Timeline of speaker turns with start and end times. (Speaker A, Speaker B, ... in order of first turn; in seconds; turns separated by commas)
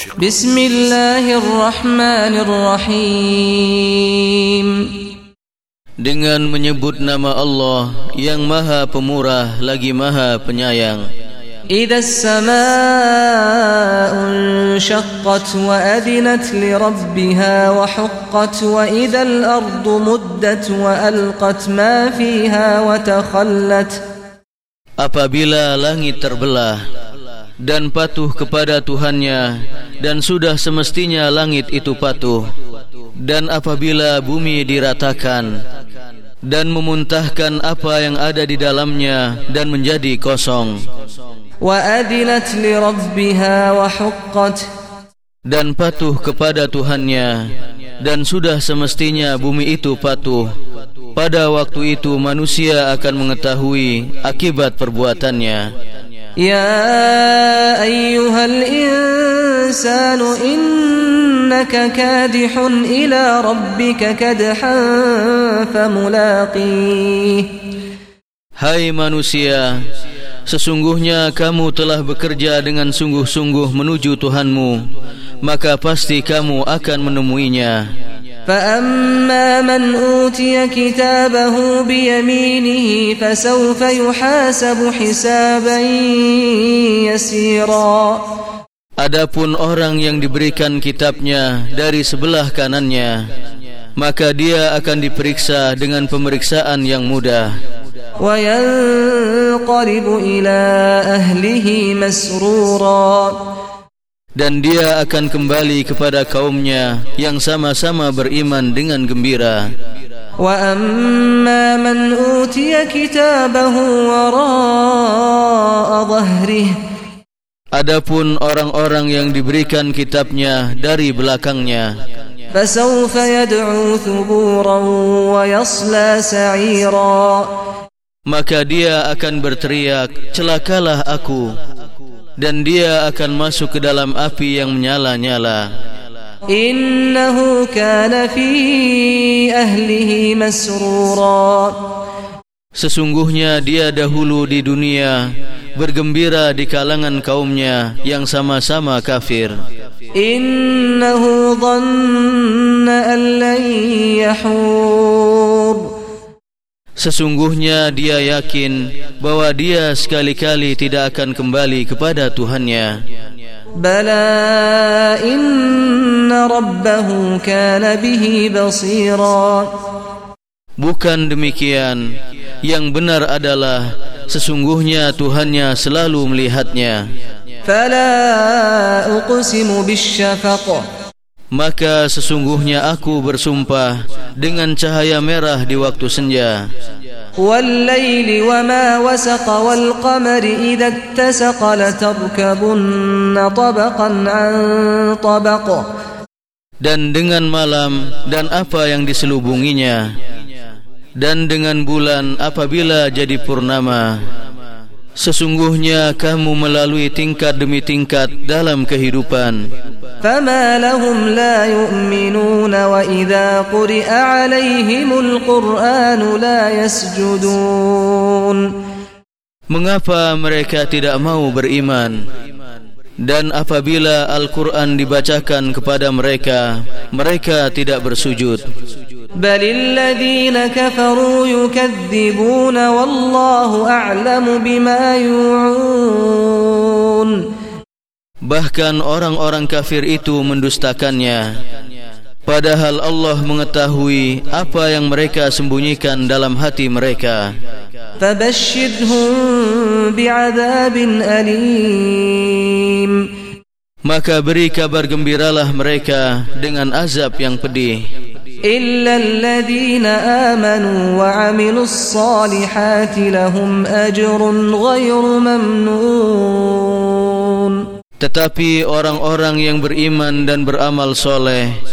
Speaker A: 0.2-4.9, Speaker B: 6.0-11.0, Speaker A: 11.7-24.0, Speaker B: 25.0-26.8, Speaker B: 27.6-32.5, Speaker B: 33.2-35.5, Speaker B: 36.5-40.8, Speaker A: 41.6-44.6, Speaker B: 45.5-47.5, Speaker B: 48.0-50.5, Speaker B: 51.2-55.7, Speaker A: 56.4-67.5, Speaker B: 68.6-69.8, Speaker B: 70.5-74.8, Speaker B: 75.4-77.8, Speaker A: 78.5-88.2, Speaker B: 89.0-93.2, Speaker B: 94.0-97.5, Speaker A: 98.2-103.4, Speaker B: 104.4-109.7, Speaker A: 110.4-116.7, Speaker B: 117.7-121.9, Speaker A: 122.5-127.5, Speaker B: 128.3-131.5, Speaker B: 132.4-135.7, Speaker A: 136.5-141.8, Speaker B: 142.8-145.3, Speaker B: 145.8-149.6, Speaker A: 150.2-155.9, Speaker B: 157.0-163.0, Speaker A: 163.8-169.7, Speaker B: 170.8-172.0, Speaker B: 172.6-177.1, Speaker A: 177.7-180.8, Speaker B: 181.5-186.6, Speaker A: 187.4-195.9, Speaker B: 196.8-200.1, Speaker B: 201.2-204.2, Speaker B: 205.2-209.6, Speaker A: 210.2-218.7, Speaker B: 219.7-222.2, Speaker B: 223.2-228.6, Speaker A: 229.4-237.4, Speaker B: 238.5-241.4, Speaker B: 242.5-247.5, Speaker A: 248.2-253.2, Speaker B: 254.1-258.0, Speaker A: 258.7-267.8, Speaker B: 268.2-271.8